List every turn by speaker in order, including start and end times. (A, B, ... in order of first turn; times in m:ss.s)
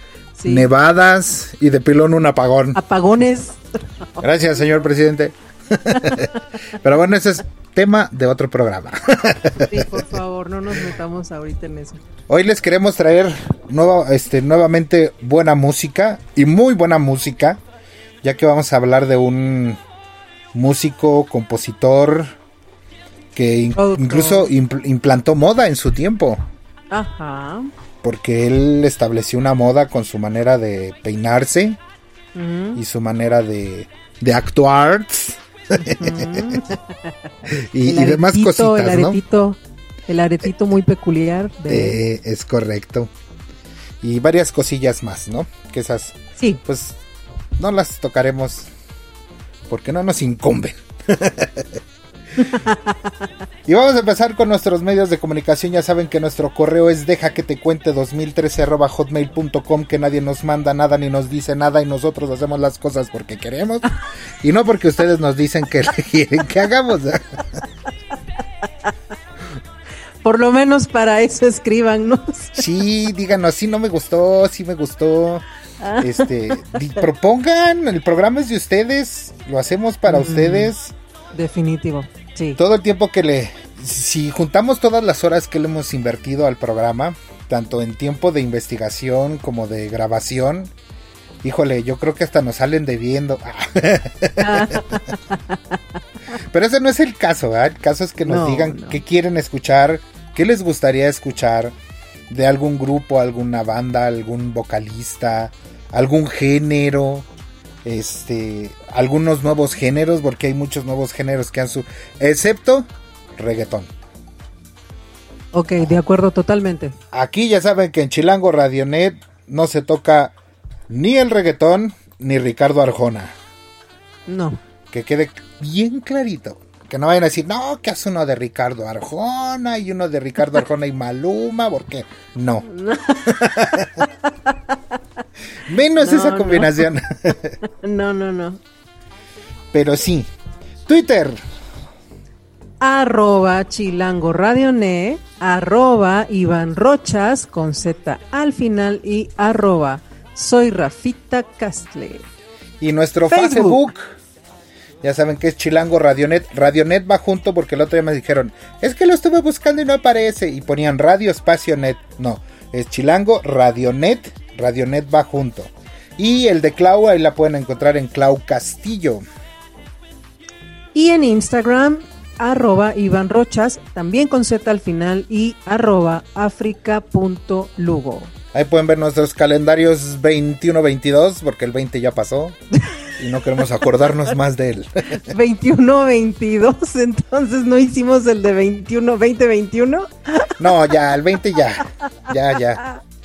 0:00.4-0:02.8 A
0:00.4-0:00.7 B
0:02.8-0:04.2 B
0:04.2-0:10.0 A
0:05.9-0:06.2 B
0:09.7-0:12.0 B
0:12.3-0:17.6 A
0:18.2-0:19.8 A
0:20.5-0:22.3 A
0:23.3-0:26.4 A
0:23.8-0:24.5 B
0:26.9-0:27.7 B
0:28.0-0:31.8 A
0:32.4-0:32.8 B
0:32.8-0:36.6 A
0:35.9-0:37.1 B
0:37.5-0:39.2 A
0:37.8-0:42.0 B
0:41.7-0:43.1 A
0:44.0-0:47.0 A
0:47.6-0:48.7 A
0:49.7-0:51.8 A
0:52.4-0:53.1 B
0:53.6-1:07.2 A
1:10.2-1:12.6 B
1:12.6-1:15.4 A
1:15.8-1:16.7 B
1:16.0-1:20.9 A
1:20.1-1:20.7 B
1:21.3-1:22.6 B
1:22.6-1:30.7 A
1:31.4-1:35.0 A
1:34.4-1:35.8 B
1:36.5-1:41.8 A
1:38.2-1:39.0 B
1:42.3-1:47.3 A
1:47.8-1:53.9 A
1:55.5-1:56.9 B
1:57.1-2:00.3 A
2:00.9-2:03.3 A
2:04.3-2:04.6 B
2:04.9-2:12.7 A
2:12.6-2:13.4 B
2:13.2-2:14.0 A
2:15.6-2:17.6 A
2:16.0-2:16.7 B
2:17.6-2:18.6 B
2:19.7-2:20.3 A
2:20.9-2:21.4 A
2:22.8-2:32.2 B
2:32.8-2:34.2 A
2:33.3-2:33.8 B
2:35.0-2:49.2 A
2:50.9-2:58.3 B
2:58.5-3:02.6 A
3:03.2-3:05.3 A
3:05.3-3:10.6 B
3:10.6-3:12.8 A